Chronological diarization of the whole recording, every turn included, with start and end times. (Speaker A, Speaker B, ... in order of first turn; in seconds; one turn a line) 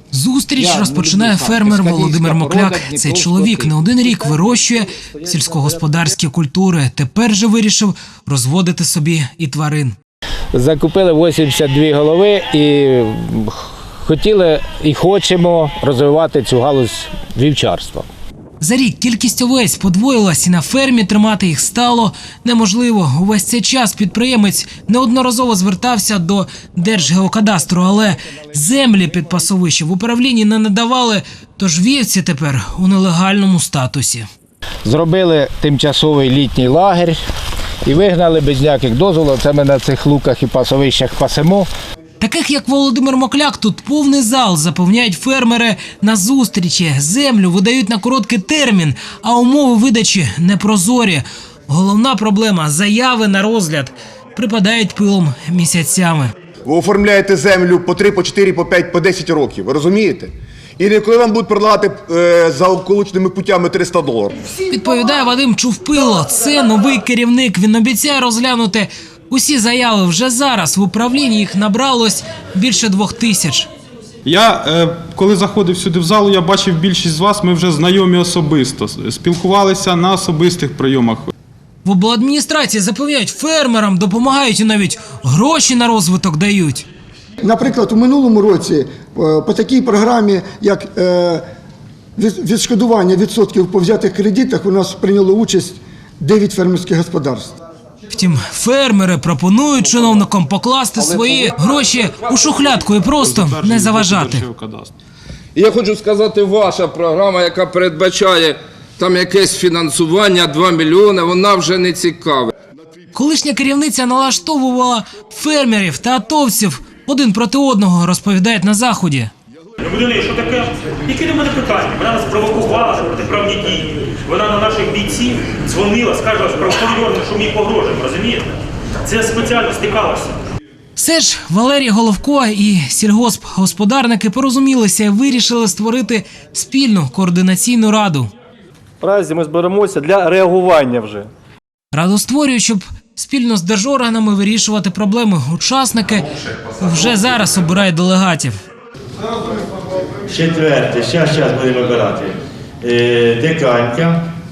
Speaker A: 0.1-9.9
Speaker B: 0.6-4.4
Speaker B: 10.5-18.1
Speaker A: 18.6-34.3
Speaker B: 34.8-37.2
Speaker B: 37.8-41.7
Speaker A: 42.2-56.3
Speaker C: 56.6-64.3
Speaker A: 64.7-73.7
Speaker D: 74.2-81.3
Speaker A: 81.8-86.8
Speaker E: 87.4-91.4
Speaker E: 92.2-97.5
Speaker A: 98.1-104.5
Speaker D: 103.2-104.9
Speaker F: 105.5-112.5
Speaker A: 113.1-119.3
Speaker G: 119.8-130.3
Speaker A: 130.9-138.3
Speaker H: 139.0-141.3
Speaker A: 141.9-148.6
Speaker I: 150.2-154.2